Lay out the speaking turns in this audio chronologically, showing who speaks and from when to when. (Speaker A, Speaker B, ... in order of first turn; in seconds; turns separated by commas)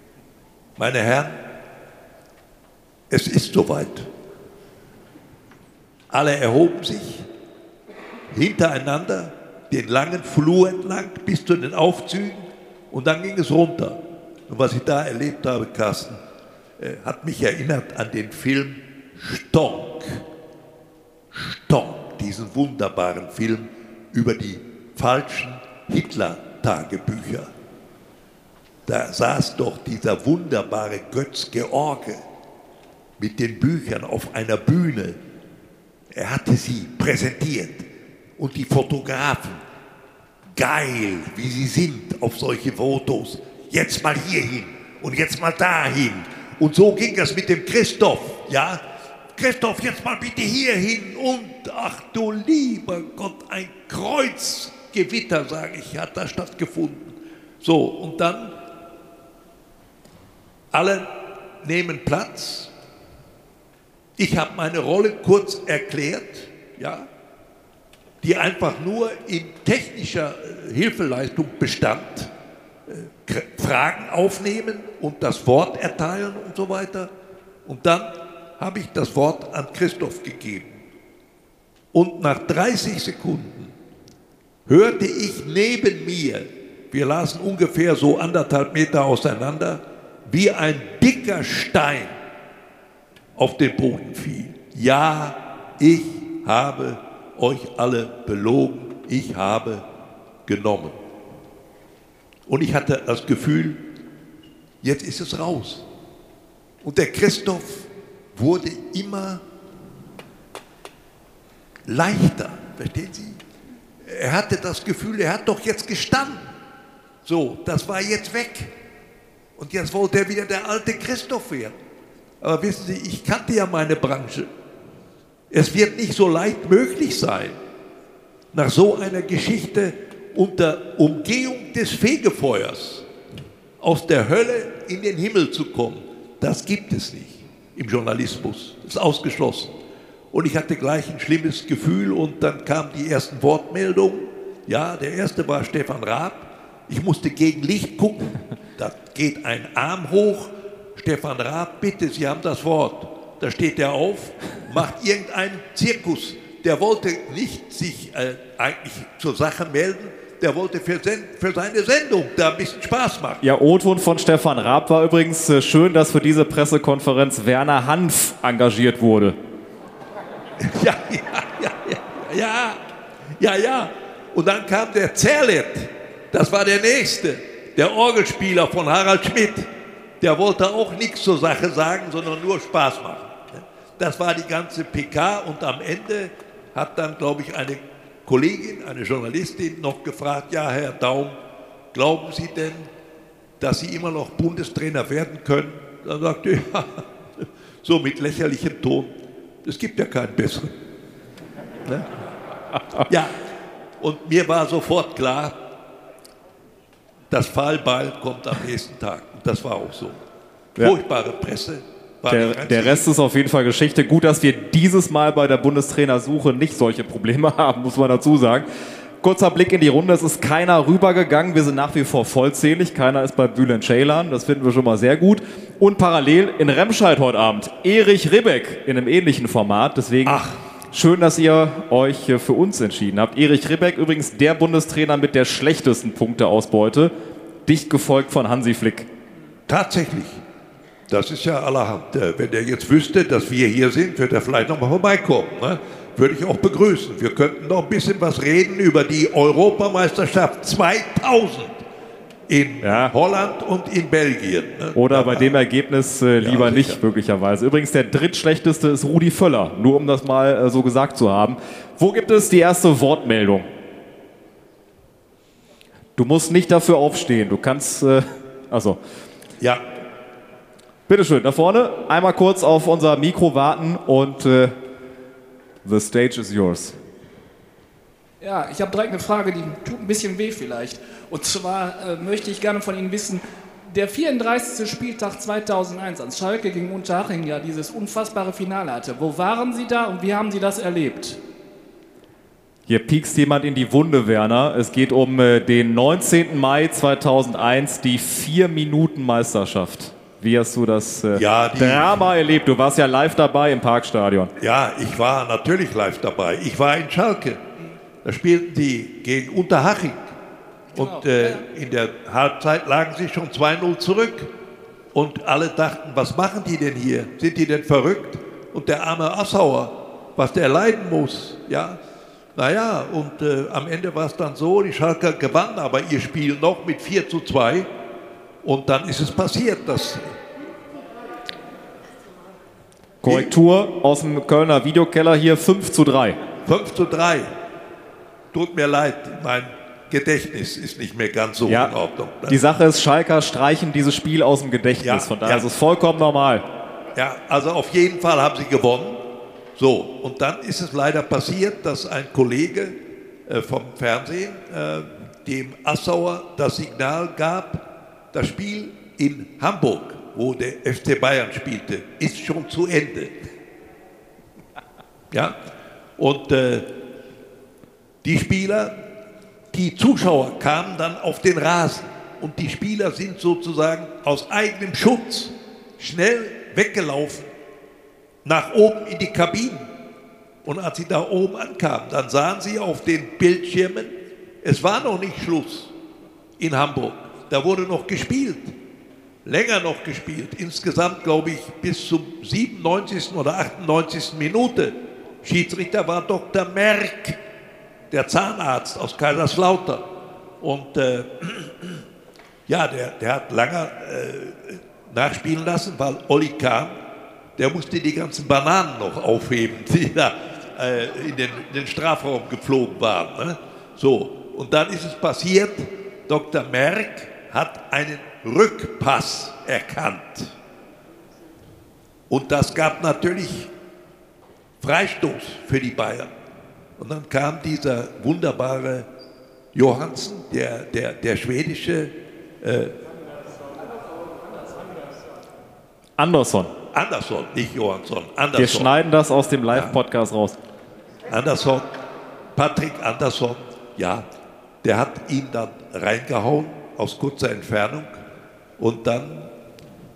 Speaker A: 0.8-1.4, Speaker A: 3.1-4.1, Speaker A: 6.1-7.3, Speaker A: 8.3-16.2, Speaker A: 16.8-20.2, Speaker A: 21.3-27.5, Speaker A: 28.9-32.2, Speaker A: 33.2-35.2, Speaker A: 36.1-39.6, Speaker A: 40.5-48.8, Speaker A: 49.3-58.5, Speaker A: 60.7-62.7, Speaker A: 64.2-67.1, Speaker A: 68.2-72.3, Speaker A: 72.9-77.1, Speaker A: 77.6-80.7, Speaker A: 81.9-83.7, Speaker A: 84.7-92.1, Speaker A: 93.3-99.8, Speaker A: 100.5-101.0, Speaker A: 102.5-103.8, Speaker A: 104.8-105.9, Speaker A: 106.8-109.4, Speaker A: 111.8-113.4, Speaker A: 114.0-116.4, Speaker A: 117.2-118.7, Speaker A: 119.5-121.8, Speaker A: 122.4-124.5, Speaker A: 125.5-127.6, Speaker A: 128.5-133.1, Speaker A: 133.8-139.8, Speaker A: 140.3-163.4, Speaker B: 163.4-169.4, Speaker A: 170.6-172.8, Speaker A: 173.4-191.4, Speaker A: 191.9-192.9, Speaker A: 193.6-200.7, Speaker A: 201.8-202.2, Speaker A: 203.1-203.4, Speaker A: 204.0-205.6, Speaker A: 207.3-210.2, Speaker A: 210.8-213.1, Speaker B: 212.3-218.7, Speaker B: 219.2-237.1, Speaker A: 230.2-230.6, Speaker B: 237.7-239.1, Speaker A: 239.7-240.4, Speaker A: 241.1-251.8, Speaker A: 252.5-255.6, Speaker B: 252.8-253.1, Speaker B: 254.9-263.7, Speaker A: 256.4-257.0, Speaker B: 266.1-269.0, Speaker A: 269.6-269.9, Speaker B: 271.1-274.7, Speaker B: 275.8-277.0, Speaker C: 278.4-291.4, Speaker B: 292.9-304.5, Speaker A: 301.3-302.2, Speaker A: 304.6-307.6, Speaker A: 308.2-310.3, Speaker A: 310.9-314.5, Speaker C: 310.9-311.6, Speaker A: 315.1-322.0, Speaker A: 322.5-327.9, Speaker A: 328.6-330.3, Speaker B: 333.2-336.4, Speaker A: 333.2-333.5, Speaker A: 336.6-337.5, Speaker A: 338.5-342.6, Speaker B: 341.7-341.9, Speaker B: 342.4-346.6, Speaker A: 345.0-345.7, Speaker A: 347.1-363.3, Speaker A: 365.3-365.6, Speaker A: 366.2-366.9, Speaker A: 368.2-369.0, Speaker A: 369.7-377.5, Speaker A: 378.4-379.9, Speaker A: 380.6-385.9, Speaker A: 386.6-388.7, Speaker A: 389.4-397.4, Speaker A: 398.1-400.1, Speaker A: 400.6-402.0, Speaker A: 402.7-407.0, Speaker A: 407.6-420.5, Speaker A: 422.3-423.7, Speaker A: 424.8-426.3, Speaker A: 427.0-429.1, Speaker A: 429.7-432.9, Speaker B: 436.2-436.7, Speaker A: 436.9-438.9, Speaker B: 438.5-440.6, Speaker A: 439.7-440.0, Speaker A: 441.3-441.9, Speaker A: 442.5-444.3, Speaker A: 444.8-448.2, Speaker A: 448.8-449.5